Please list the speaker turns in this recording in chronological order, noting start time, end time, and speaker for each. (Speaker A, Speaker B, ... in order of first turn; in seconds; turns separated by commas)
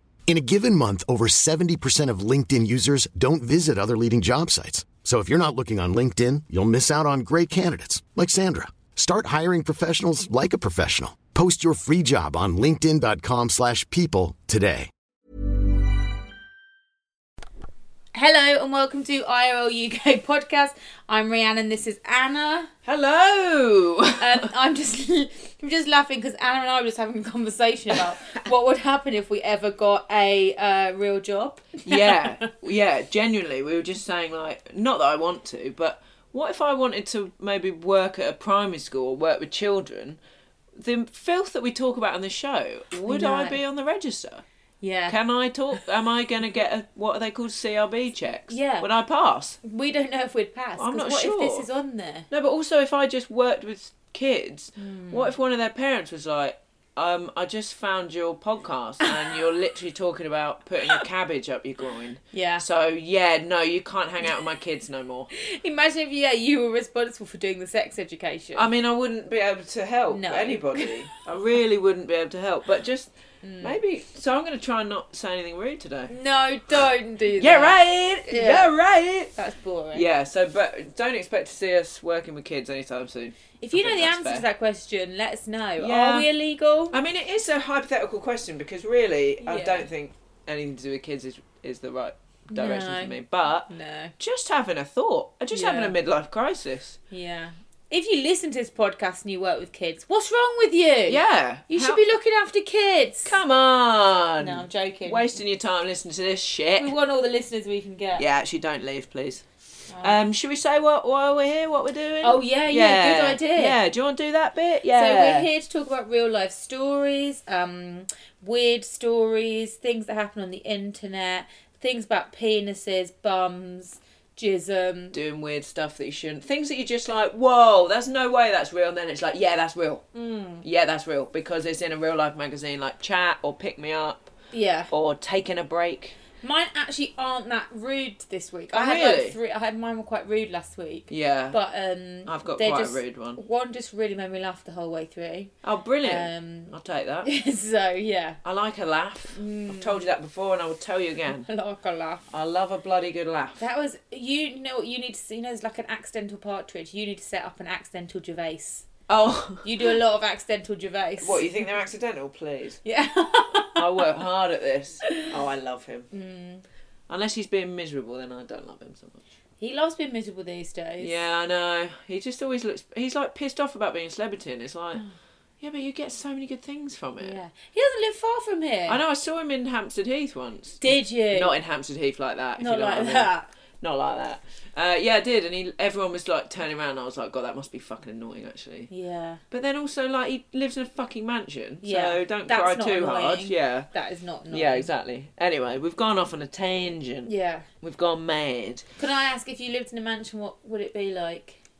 Speaker A: 0.3-14.9, Speaker B: 18.1-22.7, Speaker C: 22.8-24.4, Speaker B: 24.2-32.5, Speaker C: 31.8-40.2, Speaker C: 40.8-44.4, Speaker B: 43.0-43.6, Speaker B: 44.8-45.2, Speaker C: 45.1-49.6, Speaker B: 48.5-48.9, Speaker B: 49.6-52.3, Speaker C: 50.8-51.7, Speaker C: 52.3-65.3, Speaker B: 54.8-55.3, Speaker B: 62.3-62.6, Speaker B: 65.3-68.7, Speaker C: 68.5-73.1, Speaker B: 70.1-70.9, Speaker B: 73.4-73.8, Speaker C: 73.6-76.1, Speaker B: 76.1-78.7, Speaker C: 77.4-79.3, Speaker B: 79.3-80.0, Speaker C: 79.9-84.5, Speaker B: 83.6-87.0, Speaker C: 85.8-86.3, Speaker C: 86.9-97.0, Speaker B: 89.4-89.9, Speaker B: 92.5-93.2, Speaker B: 93.7-94.1, Speaker B: 95.5-95.9, Speaker B: 97.1-103.3, Speaker C: 101.1-102.0, Speaker C: 103.2-106.9, Speaker B: 104.4-105.3, Speaker B: 106.8-108.2, Speaker C: 108.2-109.4, Speaker B: 109.9-110.2, Speaker C: 110.0-115.5, Speaker B: 112.2-113.8, Speaker B: 114.9-125.2, Speaker C: 125.1-130.0, Speaker B: 130.1-130.6, Speaker C: 130.6-134.3, Speaker B: 134.5-134.9, Speaker C: 134.9-136.2, Speaker B: 136.4-145.5, Speaker C: 138.7-139.4, Speaker C: 141.1-141.6, Speaker C: 142.2-143.4, Speaker C: 145.6-147.3, Speaker B: 146.0-148.4, Speaker C: 148.4-151.5, Speaker B: 149.3-150.0, Speaker B: 151.4-152.3, Speaker C: 152.3-153.6, Speaker B: 153.6-158.8, Speaker C: 159.1-159.9, Speaker B: 159.6-161.5, Speaker C: 161.2-162.8, Speaker B: 162.8-164.0, Speaker C: 163.6-166.1, Speaker B: 166.1-166.6, Speaker C: 167.1-169.2, Speaker B: 169.6-171.2, Speaker C: 171.0-175.0, Speaker C: 175.6-177.4, Speaker B: 177.2-179.0, Speaker C: 178.9-188.9, Speaker B: 180.8-181.6, Speaker B: 182.6-183.5, Speaker B: 188.9-189.4, Speaker C: 189.5-193.9, Speaker B: 191.8-194.9, Speaker C: 194.5-198.8, Speaker B: 197.2-197.7, Speaker B: 199.0-201.6